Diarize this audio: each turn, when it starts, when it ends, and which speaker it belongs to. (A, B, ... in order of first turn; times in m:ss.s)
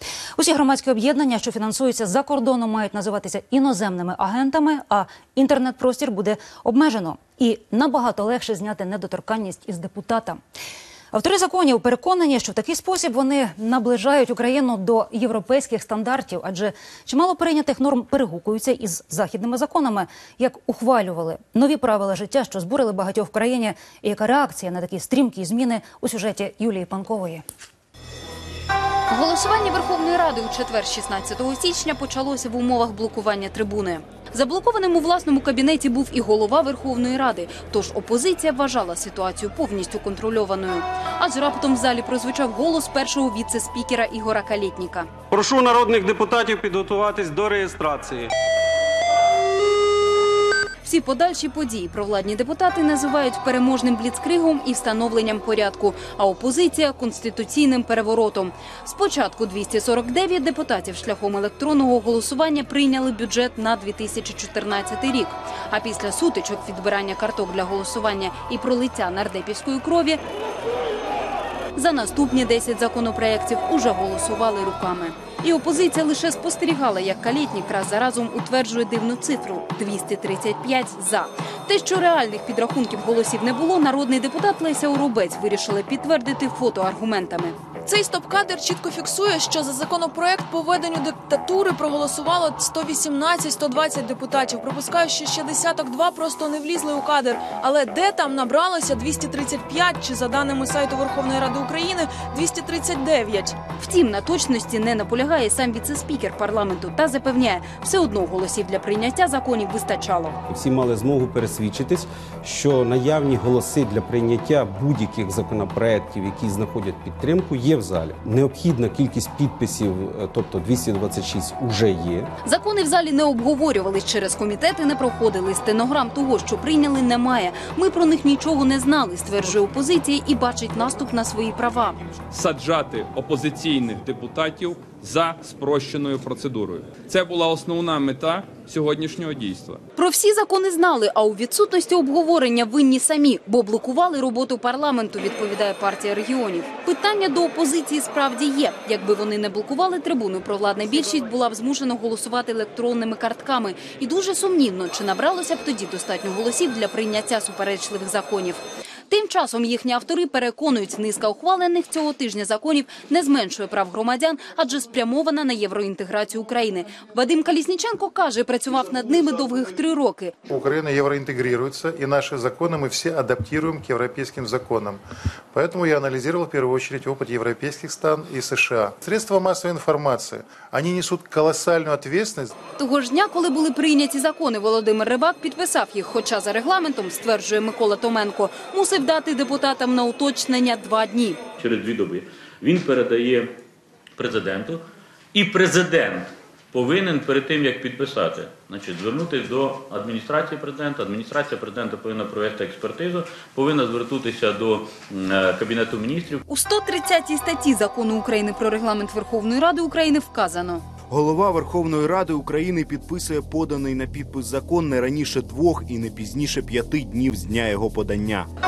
0:00.4-0:10.4 A
0:11.1-0:27.4 A
0:29.1-0:45.1 B
0:45.3-0:48.3 C
0:50.8-1:10.2 B
1:11.7-1:27.6 B
1:27.8-1:43.6 D
1:43.8-1:50.4 B
1:50.5-2:02.3 E
2:02.4-2:12.0 B
2:12.3-2:19.8 F
2:20.0-2:50.3 B
2:50.5-2:55.0 G
2:55.5-3:02.5 G
3:02.8-3:11.4 B
3:11.6-3:13.5 H
3:14.2-3:14.8 H
3:15.3-3:26.4 H
3:26.5-3:30.8 B
3:31.1-3:38.5 I